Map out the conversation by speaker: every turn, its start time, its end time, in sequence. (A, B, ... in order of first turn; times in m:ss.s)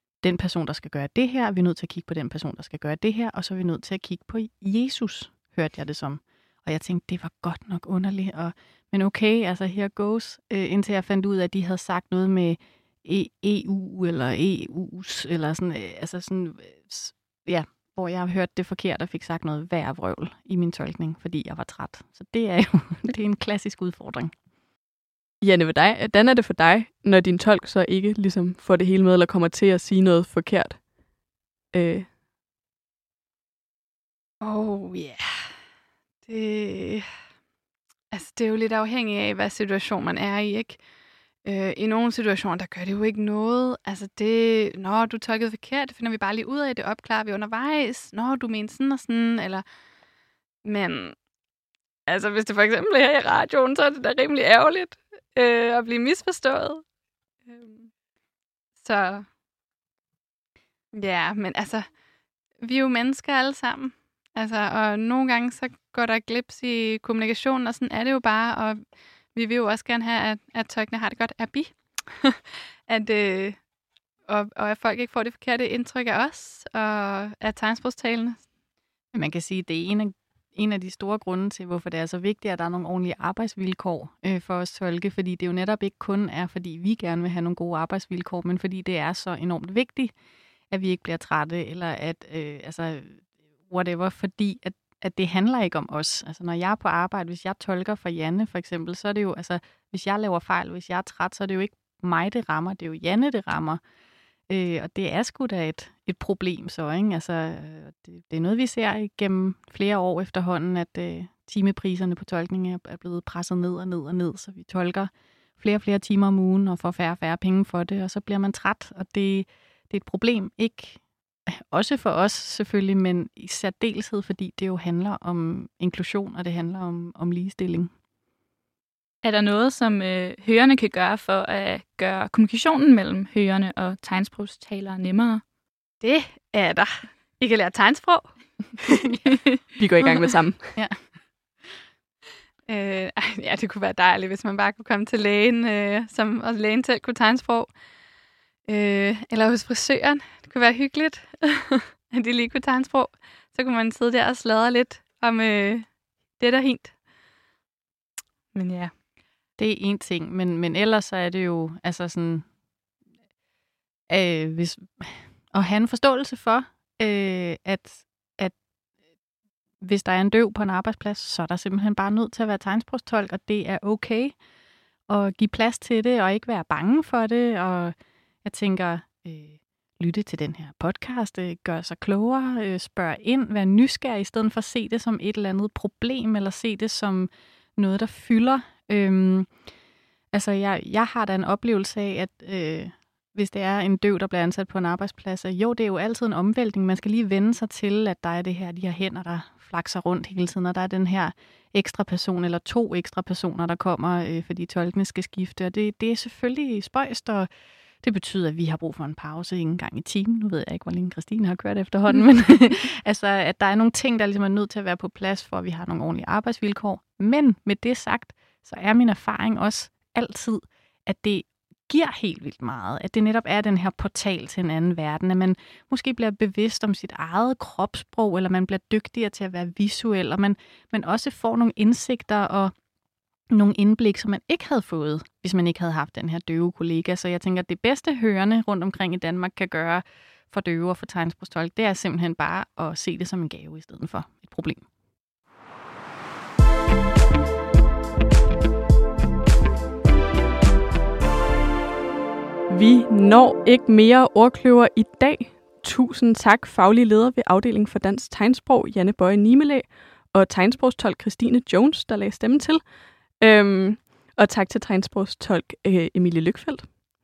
0:00.2-0:24.3 A
0:25.4-0:30.9 B
0:31.7-0:32.1 B
0:34.4-0:35.5 C
0:36.2-0:37.1 C
0:38.1-0:40.8 C
0:41.4-0:49.6 C
0:50.6-0:51.2 C
0:52.1-0:56.8 C
0:57.4-0:57.9 C
0:58.8-0:59.3 C
1:00.9-1:01.9 C
1:02.6-1:08.8 C
1:09.3-1:13.6 C
1:14.3-1:18.4 C
1:19.1-1:30.1 A
1:30.7-1:43.8 A
1:44.5-2:07.9 A
2:09.2-2:15.4 D
2:16.0-2:19.1 C
2:19.8-2:20.7 B
2:20.0-2:20.3 C
2:22.6-2:27.7 C
2:28.7-2:37.0 C
2:38.5-2:38.9 C
2:39.6-2:42.5 A
2:44.1-2:48.6 A
2:49.8-2:54.4 A
2:55.1-3:09.5 A
3:10.3-3:27.5 A
3:28.0-3:52.7 A
3:53.5-4:04.8 A
4:12.7-4:27.0 B